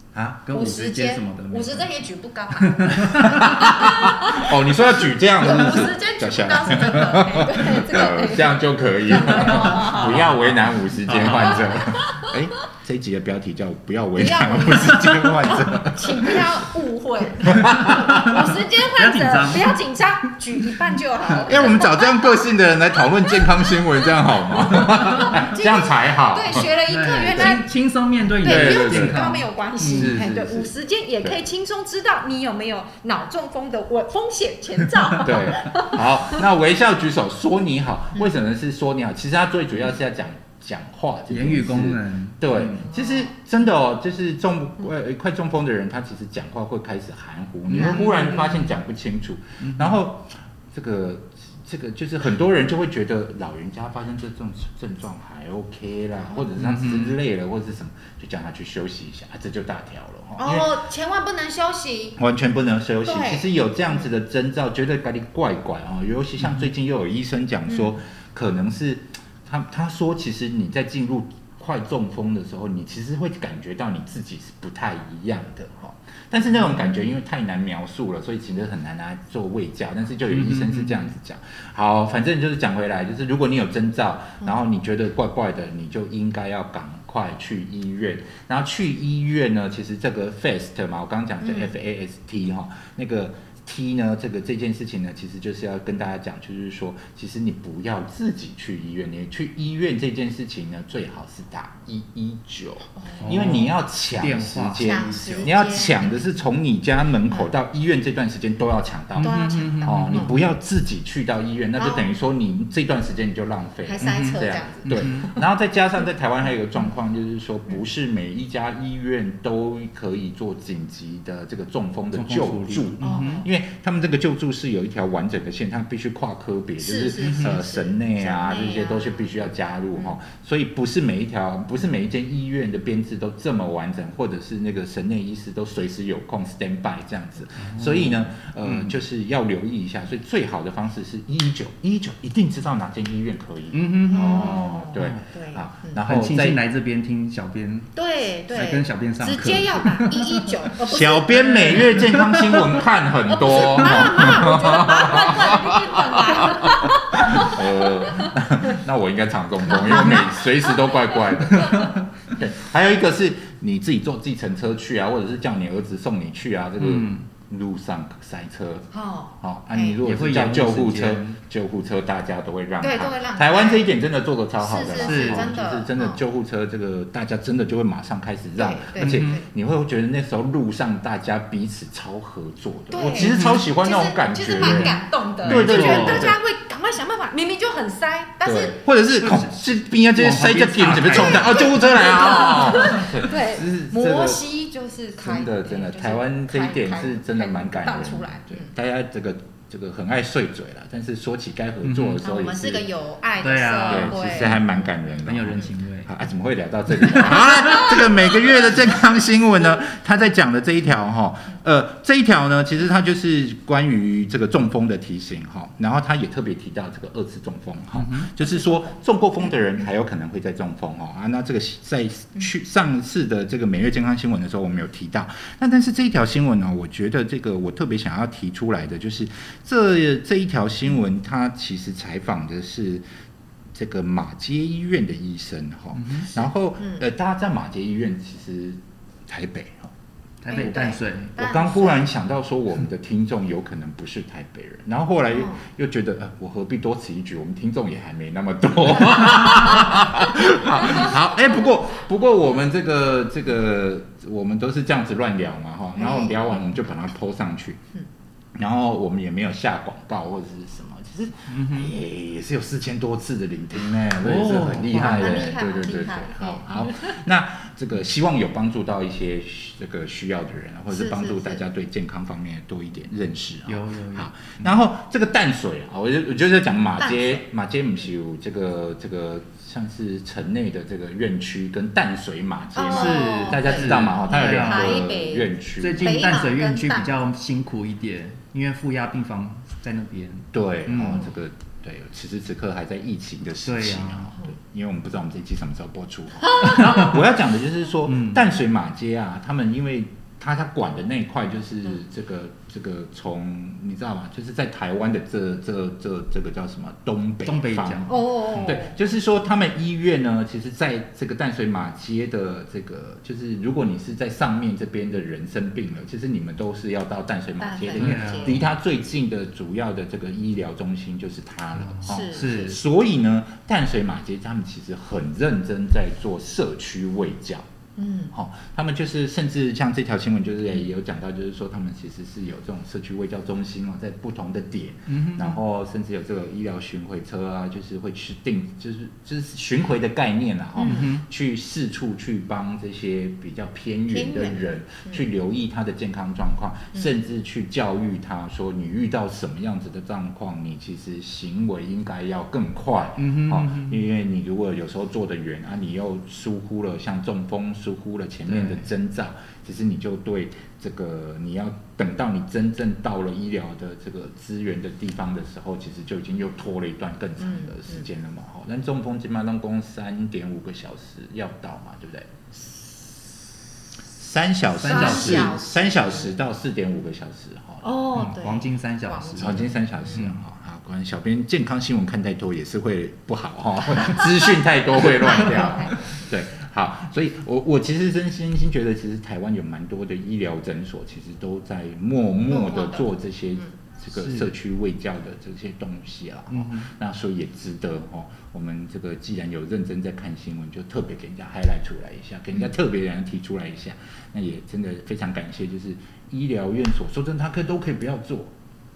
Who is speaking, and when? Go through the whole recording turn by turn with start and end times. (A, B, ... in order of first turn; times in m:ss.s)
0:00.1-0:00.4 A
0:00.4-0:01.9 B
0:00.5-0:10.4 C
0:02.6-0:03.9 B
0:03.1-0:16.6 A
0:09.7-0:11.8 B
0:11.6-0:12.4 C
0:14.2-0:22.4 C
0:15.1-0:15.5 B
0:17.4-0:18.4 A
0:17.6-0:20.8 B
0:21.4-0:26.7 A
0:23.0-0:24.0 C
0:24.6-0:27.7 C
0:26.9-0:30.2 B
0:27.3-0:27.6 A
0:28.4-0:30.7 A
0:28.4-0:36.4 C
0:35.2-1:00.7 A
0:41.3-0:42.8 B
0:42.9-0:43.3 C
0:47.7-0:48.5 B
0:47.7-0:48.4 C
0:49.6-0:50.0 B
0:56.6-0:57.2 B
1:00.4-1:02.2 C
1:02.2-2:26.6 A
1:03.0-1:03.5 C
1:07.7-1:07.9 C
1:20.3-1:21.1 B
1:31.4-1:31.7 C
1:43.0-1:43.3 C
1:43.2-1:45.5 B
1:44.8-1:46.2 C
1:49.2-1:50.5 B
1:49.2-1:50.3 C
1:51.8-1:52.1 C
1:53.8-1:55.4 C
1:54.0-1:55.3 B
2:02.1-2:03.4 B
2:03.0-2:03.5 C
2:06.8-2:09.3 C
2:07.2-2:07.5 B
2:17.6-2:18.9 B
2:23.7-2:25.2 B
2:24.1-2:26.0 C
2:26.0-2:27.9 B
2:27.9-2:32.0 C
2:28.5-2:30.6 B
2:30.8-2:48.9 A
2:31.7-2:32.7 B
2:33.3-2:38.3 C
2:39.7-2:40.3 C
2:41.5-2:42.0 C
2:41.6-2:42.0 B
2:46.8-2:47.3 B
2:48.9-2:50.0 C
2:49.4-3:06.4 A
2:50.0-2:51.4 B
2:52.8-2:53.9 C
2:54.6-2:56.2 C
2:54.9-2:55.5 B
2:58.6-2:59.4 C
2:59.0-2:59.4 B
3:02.9-3:08.8 C
3:03.2-3:03.6 B
3:04.6-3:06.3 B
3:08.4-3:14.4 A
3:09.2-3:11.8 B
3:11.1-3:18.7 C
3:15.2-3:22.8 A
3:21.8-3:22.2 B
3:22.2-3:24.6 C
3:23.4-3:26.1 B
3:23.9-3:53.0 A
3:27.2-3:28.0 B
3:38.0-3:38.3 B
3:38.4-3:38.9 C
3:53.7-3:59.9 A
3:56.0-3:56.3 B
3:56.4-3:57.0 C
4:00.4-4:01.3 B
4:00.5-4:02.1 C
4:01.4-4:17.8 A
4:05.3-4:05.6 C
4:16.0-4:16.4 C
4:18.5-4:46.3 A
4:21.5-4:21.9 B
4:24.2-4:25.4 B
4:25.0-4:27.2 C
4:30.9-4:31.6 C
4:33.6-4:34.5 B
4:37.0-4:37.4 C
4:42.7-4:47.1 C
4:42.9-4:45.1 B
4:45.8-4:51.2 B
4:50.5-5:27.6 A
4:53.6-4:54.3 B
4:58.1-4:58.4 B
5:07.4-5:08.8 B
5:08.1-5:08.9 C
5:17.6-5:18.6 C
5:18.0-5:18.6 B
5:21.8-5:22.8 B
5:22.0-5:22.7 C
5:28.0-5:28.3 C
5:28.3-6:12.3 A
5:35.1-5:35.6 B
5:40.8-5:41.1 C
5:40.8-5:41.2 B
5:44.1-5:45.2 C
5:53.2-5:54.0 B
5:58.5-5:58.9 B
6:07.4-6:08.0 C
6:14.1-6:17.8 A
6:14.7-6:15.6 B
6:14.8-6:16.4 C
6:17.8-6:20.2 C
6:18.1-6:20.4 B
6:19.4-6:48.5 A
6:25.3-6:26.0 C
6:32.5-6:33.1 C
6:34.2-6:34.5 B
6:36.5-6:36.9 B